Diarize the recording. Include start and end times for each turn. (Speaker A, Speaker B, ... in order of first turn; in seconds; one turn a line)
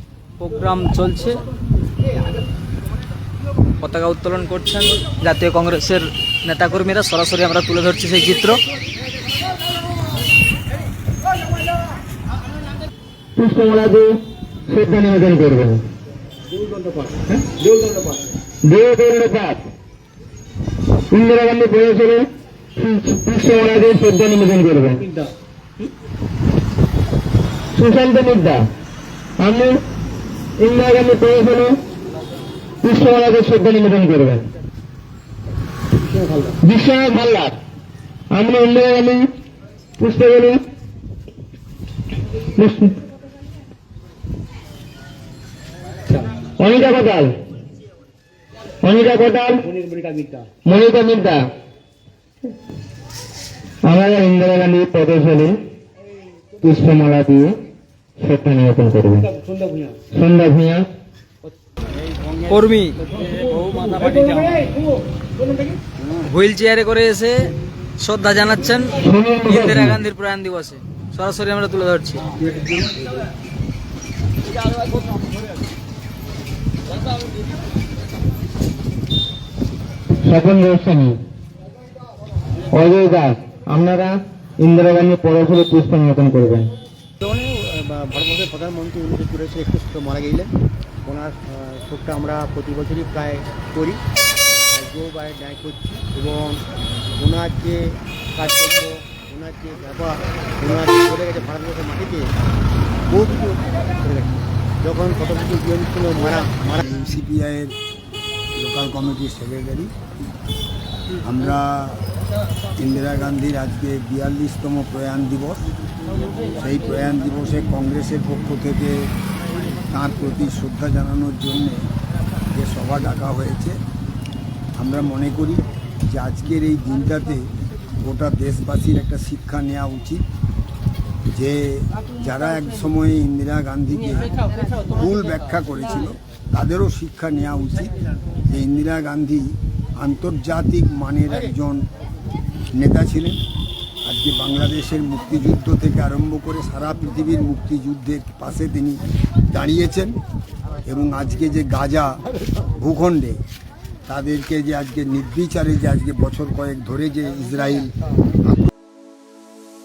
Speaker A: 0.4-1.4
Speaker A: 3.8-8.6
Speaker B: 13.4-14.1
Speaker B: 14.7-15.8
Speaker C: 16.5-18.2
Speaker B: 18.6-19.6
Speaker B: 21.1-25.0
Speaker C: 25.0-25.3
Speaker B: 27.8-28.6
Speaker B: 29.4-29.8
Speaker B: 30.6-31.8
Speaker B: 32.8-34.5
Speaker C: 36.0-36.5
Speaker B: 36.6-37.5
Speaker B: 38.3-39.2
Speaker B: 40.0-40.6
Speaker B: 42.6-42.9
Speaker B: 46.6-47.4
Speaker B: 48.8-49.6
Speaker C: 49.6-50.5
Speaker B: 50.6-51.4
Speaker B: 53.8-55.6
Speaker B: 56.6-57.6
Speaker B: 58.2-59.3
Speaker C: 59.3-60.0
Speaker B: 60.1-60.9
Speaker C: 61.9-64.8
Speaker A: 62.5-64.6
Speaker A: 66.2-72.2
Speaker B: 69.0-70.0
Speaker B: 80.2-81.2
Speaker B: 82.7-86.7
Speaker C: 87.2-90.5
Speaker C: 91.0-94.0
Speaker C: 94.7-96.6
Speaker C: 97.2-102.3
Speaker C: 103.1-106.8
Speaker D: 106.8-107.8
Speaker D: 108.5-109.9
Speaker D: 111.2-112.0
Speaker D: 112.8-115.6
Speaker D: 116.5-119.1
Speaker D: 119.7-121.9
Speaker D: 122.5-123.8
Speaker D: 124.8-130.2
Speaker D: 131.3-137.9
Speaker D: 138.5-141.9
Speaker D: 142.7-143.4
Speaker D: 144.0-150.2
Speaker D: 150.8-152.2
Speaker D: 152.7-153.4
Speaker D: 154.1-157.9